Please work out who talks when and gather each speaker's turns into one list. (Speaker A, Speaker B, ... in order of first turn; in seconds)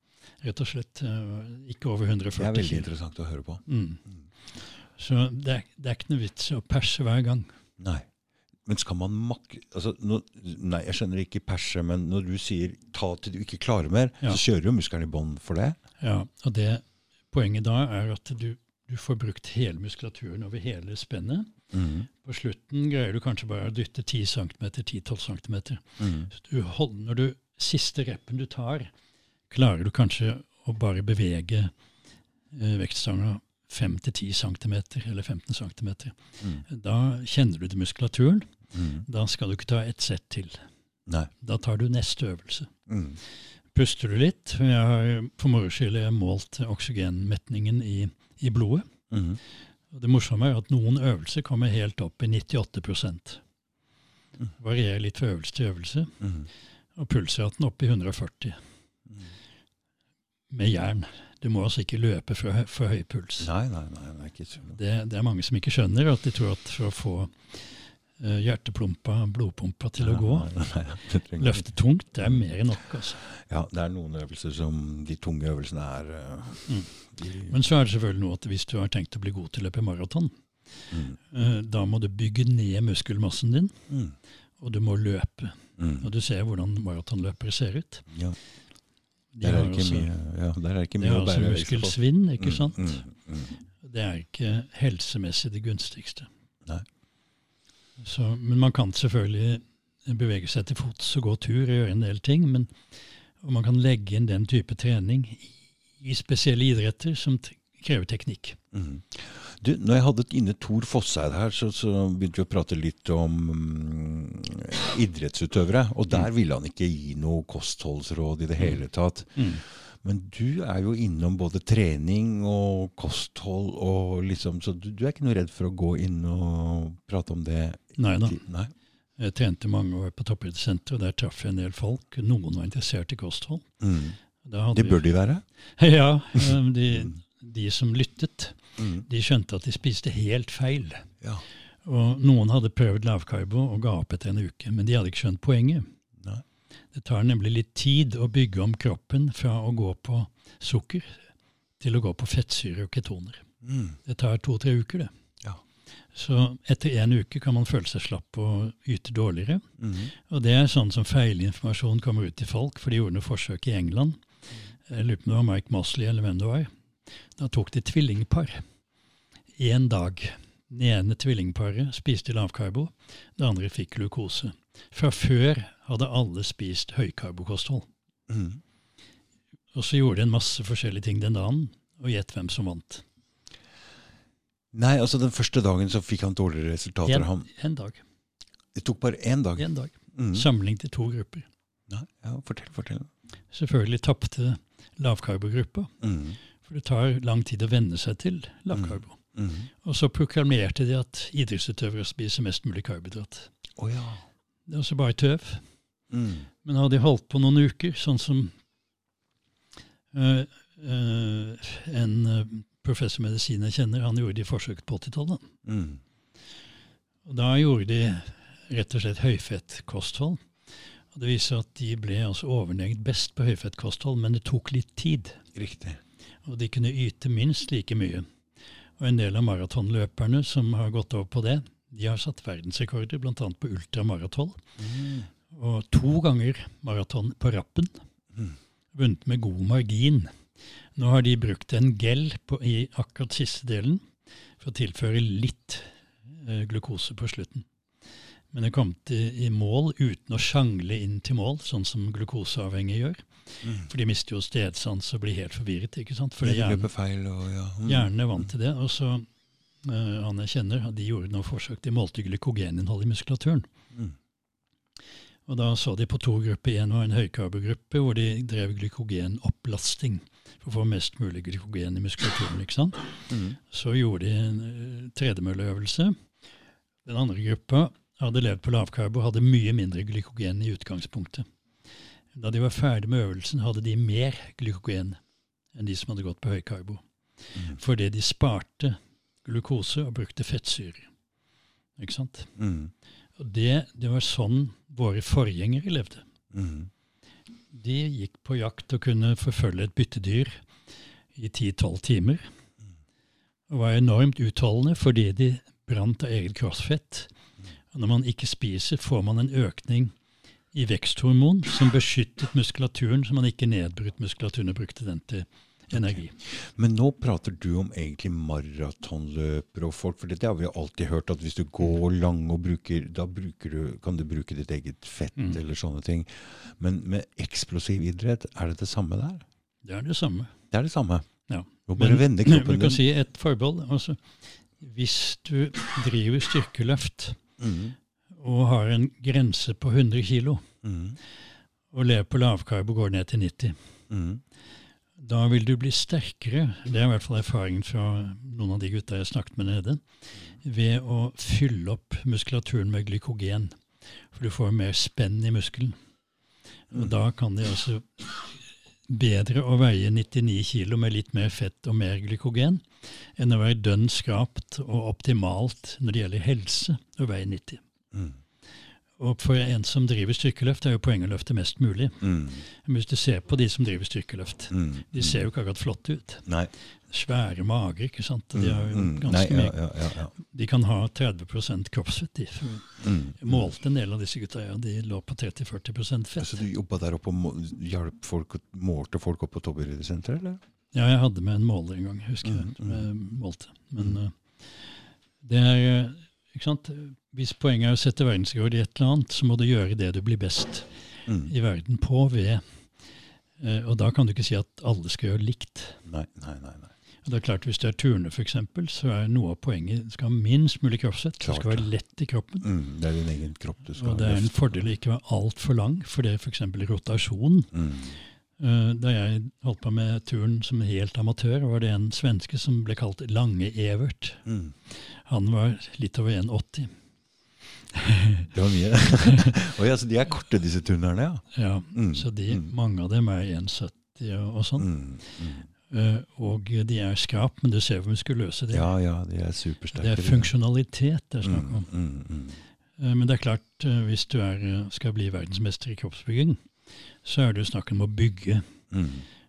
Speaker A: 0.4-2.9, 3.7-4.0, 5.0-7.5, 16.0-21.5, 22.2-28.9, 29.5-31.7, 32.5-40.6, 41.4-42.7, 43.7-48.9, 49.9-53.4, 54.5-56.1, 56.9-58.6, 60.5-63.5, 64.7-70.5, 71.4-73.2, 76.7-80.3, 81.2-83.8, 84.6-88.0, 89.3-90.1, 91.0-93.0, 93.8-96.3, 98.0-102.7, 103.4-108.6, 119.3-119.6, 128.0-128.4, 129.2-133.7, 134.4-135.0, 135.8-141.1, 141.8-145.9, 146.9-151.3, 151.8-153.4, 154.0-155.1, 156.1-164.2, 164.9-166.7, 167.3-168.6, 169.6-177.9, 179.7-183.0, 187.0-188.0, 189.6-191.5, 193.5-195.9, 196.6-199.2, 199.8-203.5, 204.7-205.6, 206.6-208.5, 210.1-215.5, 217.2-220.5, 221.1-225.4, 226.4-228.3, 229.0-234.6, 235.5-238.0, 238.9-240.4, 240.9-244.1, 244.6-247.7, 248.5-256.9, 257.8-259.3, 259.8-263.7, 265.4-276.2, 277.0-281.4, 282.3-285.2, 285.7-287.0, 287.7-291.1, 292.0-292.5, 293.4-296.2, 297.7-300.7, 301.3-302.5, 303.7-307.3, 307.9-310.1, 310.7-316.4, 329.8-330.5, 331.5-337.4, 338.3-340.7, 341.9-343.8, 345.2-350.0, 350.6-353.8, 354.3-356.0, 356.9-367.8, 369.2-376.5, 377.1-379.8, 380.4-386.6, 390.9-402.6, 403.6-406.0, 407.2-412.7, 414.0-417.7, 418.6-426.9, 427.9-428.5, 429.2-429.6, 431.5-434.9, 435.9-438.9, 439.9-441.9, 443.0-446.6, 447.2-448.7
Speaker B: 2.4-3.6, 7.8-8.1, 8.7-15.8, 21.7-22.1, 26.0-26.3, 38.7-39.0, 42.9-43.2, 49.1-49.4, 56.2-56.5, 63.4-64.8, 70.0-71.6, 73.2-77.5, 80.9-81.2, 83.9-84.2, 85.8-86.1, 88.1-88.3, 89.4-93.5, 108.7-128.7, 133.8-134.2, 134.7-135.4, 138.8-139.1, 153.6-154.0, 159.8-160.1, 178.3-178.6, 184.7-187.5, 188.7-190.4, 191.9-193.1, 196.0-196.4, 198.7-199.7, 203.8-204.2, 206.1-206.5, 215.6-216.0, 225.5-226.0, 234.8-235.3, 253.6-253.9, 256.4-258.4, 273.3-273.6, 287.5-287.8, 292.6-292.9, 296.5-296.9, 315.9-329.4, 330.7-331.3, 331.9-333.0, 337.6-337.9, 340.8-341.2, 344.1-344.4, 368.1-368.4, 372.2-372.6, 374.7-375.5, 376.4-376.7, 378.5-380.3, 383.0-383.7, 386.4-390.6, 392.4-393.1, 401.2-401.5, 406.0-406.9, 411.4-411.9, 412.6-414.9, 417.7-418.2, 424.4-424.7, 428.5-432.7, 434.8-435.7, 438.7-440.5, 441.4-442.6, 448.9-449.2